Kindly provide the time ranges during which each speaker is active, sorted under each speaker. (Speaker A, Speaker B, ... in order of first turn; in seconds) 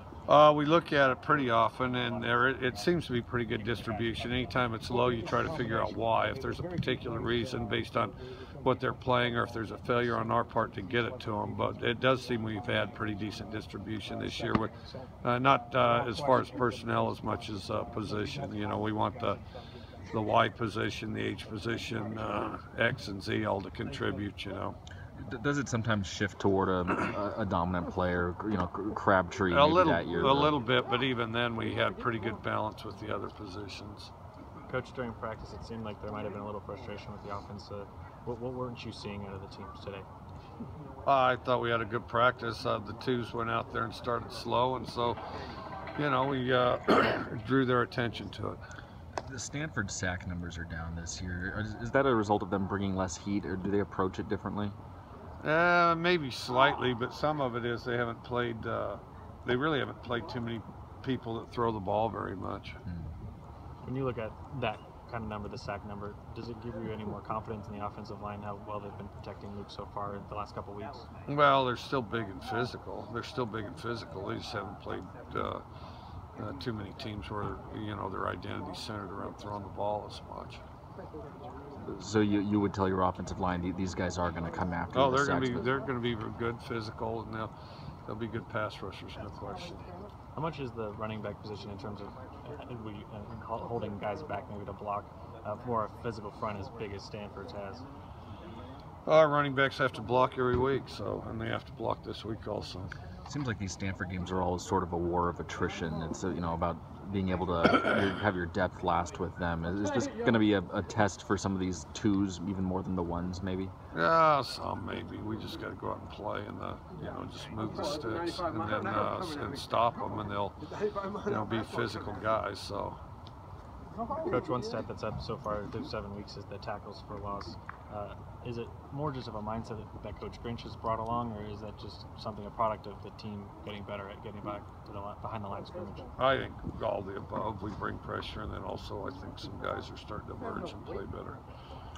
Speaker A: 0.3-19.4, 20.1-24.8, 29.5-34.1, 41.0-45.2, 46.0-48.6, 55.4-62.8, 71.3-75.6, 76.4-80.6, 84.9-87.5, 88.1-89.9, 99.1-102.9, 113.9-120.6, 121.2-123.0, 136.2-141.4
Speaker B: 25.2-30.6, 49.2-54.8, 62.9-63.1, 81.8-85.7, 103.2-113.7
Speaker C: 34.7-40.1, 63.8-71.1, 90.3-97.9, 124.2-136.1